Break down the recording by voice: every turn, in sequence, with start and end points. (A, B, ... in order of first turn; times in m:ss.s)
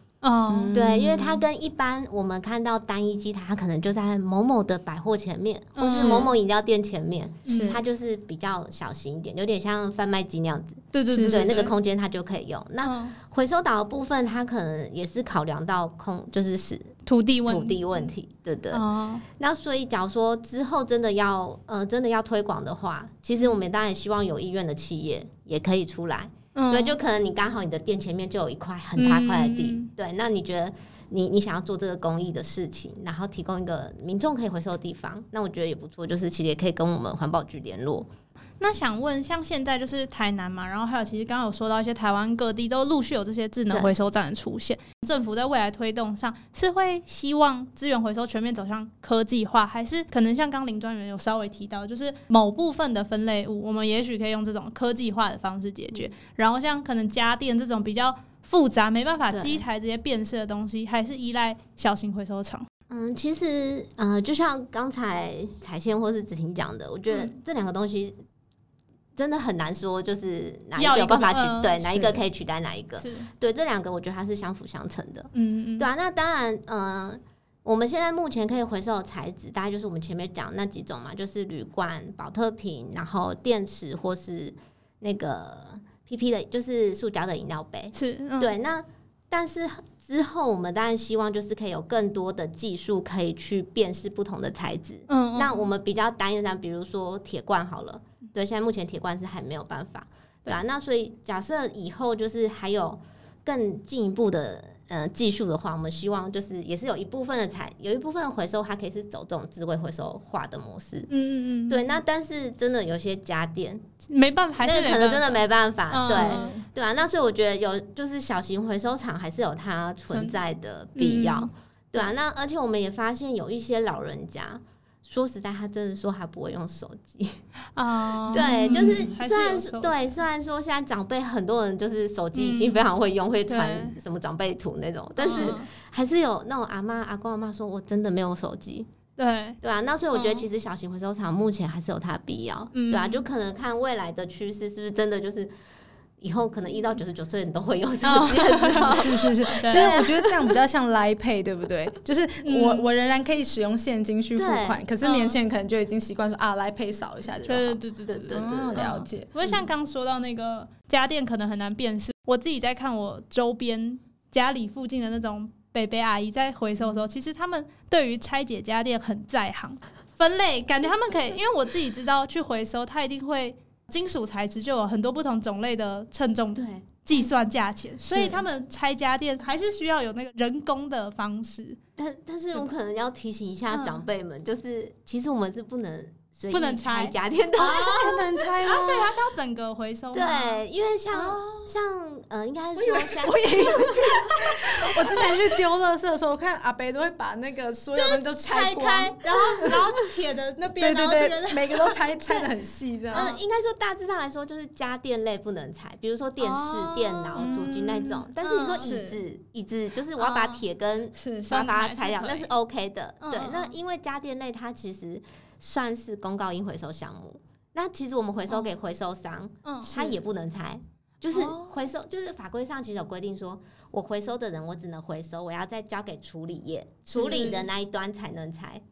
0:00.2-0:00.8 A
0:00.5-0:01.4 B
0:00.7-0:16.9 C
0:05.8-0:06.3 A
0:07.4-0:07.8 A
0:07.4-0:07.8 B
0:10.9-0:11.7 A
0:11.1-0:11.7 B
0:12.8-0:13.2 A
0:17.0-0:18.1 A
0:17.4-0:38.1 C
0:18.7-0:19.2 A
0:26.5-0:27.0 A
0:29.0-0:29.9 A
0:38.6-1:02.6 A
0:59.3-0:59.6 C
1:02.9-1:08.2 C
1:09.2-1:51.1 C
1:10.8-1:11.8 A
1:11.8-1:12.2 B
1:13.0-1:13.3 A
1:15.3-1:15.9 A
1:27.9-1:28.5 A
1:35.1-1:35.6 A
1:51.1-1:51.9 A
1:51.7-1:53.8 C
1:54.1-1:56.6 A
1:54.6-2:07.4 C
1:56.1-1:56.6 B
2:00.1-2:00.4 A
2:01.0-2:01.5 A
2:07.8-2:10.2 A
2:08.3-2:18.9 C
2:08.3-2:09.0 B
2:12.3-2:12.8 A
2:13.5-2:13.9 A
2:15.2-2:15.7 A
2:19.2-2:19.6 A
2:19.6-2:25.5 C
2:20.1-2:20.4 A
2:22.7-2:23.2 A
2:26.2-2:30.3 C
2:28.0-2:30.0 A
2:28.8-2:37.8 B
2:32.4-2:32.9 A
2:34.4-2:34.8 C
2:35.0-2:35.4 A
2:37.4-3:01.8 A
2:38.0-2:38.9 C
2:38.3-2:39.3 B
2:56.5-2:56.9 C
2:58.0-2:58.4 B
3:02.0-3:08.2 C
3:03.7-3:04.0 A
3:06.5-3:11.7 A
3:07.8-3:09.1 B
3:10.1-3:15.2 C
3:13.2-3:19.8 B
3:17.9-3:22.1 A
3:20.8-3:23.3 B
3:23.1-3:23.4 A
3:23.1-3:48.8 C
3:26.4-3:27.6 A
3:27.4-3:28.2 B
3:28.4-3:28.9 A
3:28.8-3:29.2 B
3:30.2-3:30.6 A
3:31.1-3:31.6 B
3:31.5-3:32.5 A
3:33.2-3:33.8 A
3:39.6-3:39.9 A
3:39.8-3:40.2 B
3:41.3-3:41.8 A
3:47.1-3:47.6 B
3:47.1-3:47.6 A